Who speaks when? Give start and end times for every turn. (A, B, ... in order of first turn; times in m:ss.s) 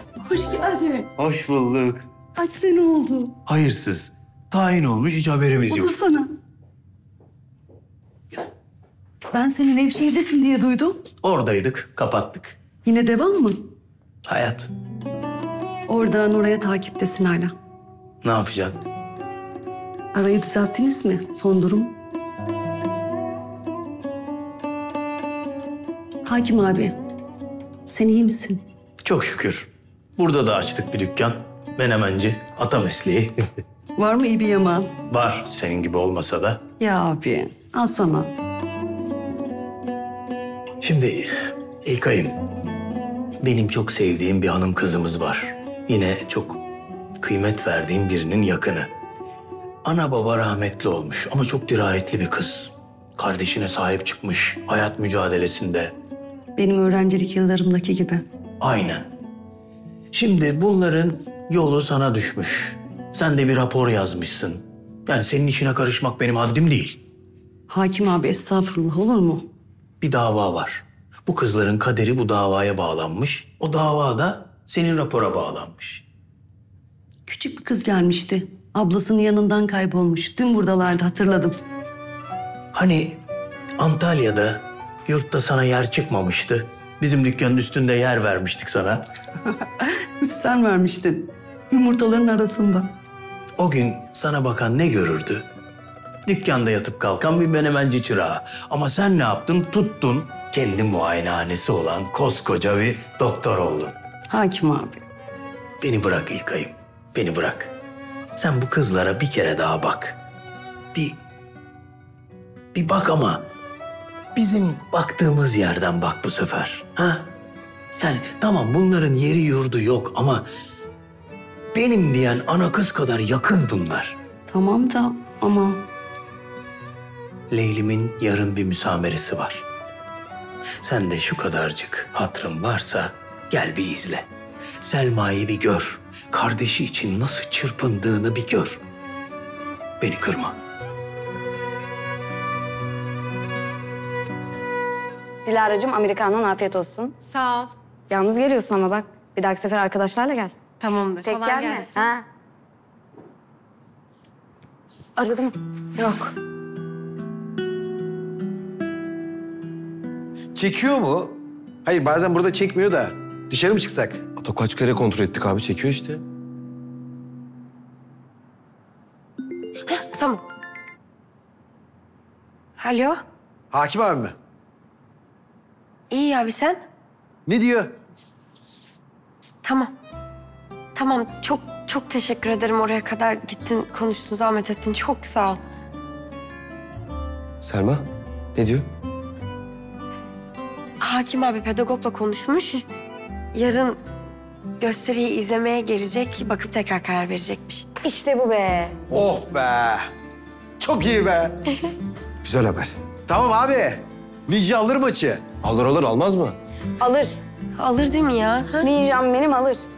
0:00.2-0:01.1 A
0:01.2-0:02.1 B
0:02.4-0:03.3 A
0:03.5-0:05.9 B
0:05.7-0:06.3 A
0:09.3-0:11.0 A
0:11.2-0:12.6 B
0:12.8-0:13.6 A
0:14.3-0:14.7 B
0:15.9-0:17.5 A
0:18.2-0:18.8 B
0:20.1-0:21.9 A
0:26.2-0:27.0 A
0:27.9-0:28.6 A
0:29.0-0:33.4 B
0:34.0-0:34.9 A
0:35.1-0:36.6 B
0:36.8-0:38.3 A
0:40.8-0:41.3 B
0:41.8-0:42.4 B
0:43.4-0:46.6 B
0:47.2-0:48.9 B
0:49.8-0:55.9 B
0:56.6-0:58.2 A
0:58.6-0:59.1 B
1:00.1-1:07.0 B
1:07.7-1:09.4 A
1:10.0-1:16.0 B
1:17.3-1:21.6 A
1:22.7-1:23.2 B
1:23.8-1:29.0 B
1:29.5-1:32.9 A
1:33.6-1:35.4 B
1:36.3-1:44.0 B
1:44.3-1:45.0 A
1:45.8-1:47.7 B
1:48.4-1:50.2 B
1:52.7-1:53.4 B
1:54.3-1:57.3 B
1:58.0-2:00.5 B
2:01.7-2:04.2 B
2:04.5-2:05.8 A
2:07.5-2:09.6 B
2:10.8-2:14.3 B
2:14.8-2:18.8 B
2:20.0-2:20.6 B
2:25.4-2:27.2 C
2:27.4-2:27.7 D
2:28.1-2:30.6 C
2:30.8-2:32.0 D
2:31.2-2:32.2 C
2:35.2-2:36.3 C
2:40.5-2:44.2 E
2:44.4-2:46.2 F
2:49.9-2:50.4 D
2:52.8-2:53.2 D
2:53.7-2:54.4 E
2:56.1-2:56.8 D
2:57.5-2:57.9 E
2:59.6-2:59.9 D
3:01.0-3:05.6 D
3:07.6-3:08.9 F
3:11.0-3:12.9 D
3:13.5-3:14.0 D
3:14.8-3:17.9 D
3:18.0-3:19.0 C
3:19.1-3:20.1 E
3:20.8-3:21.6 E
3:22.4-3:22.9 F
3:23.2-3:25.4 E
3:25.6-3:26.6 F
3:27.0-3:27.4 C
3:27.8-3:28.9 D
3:28.8-3:29.9 C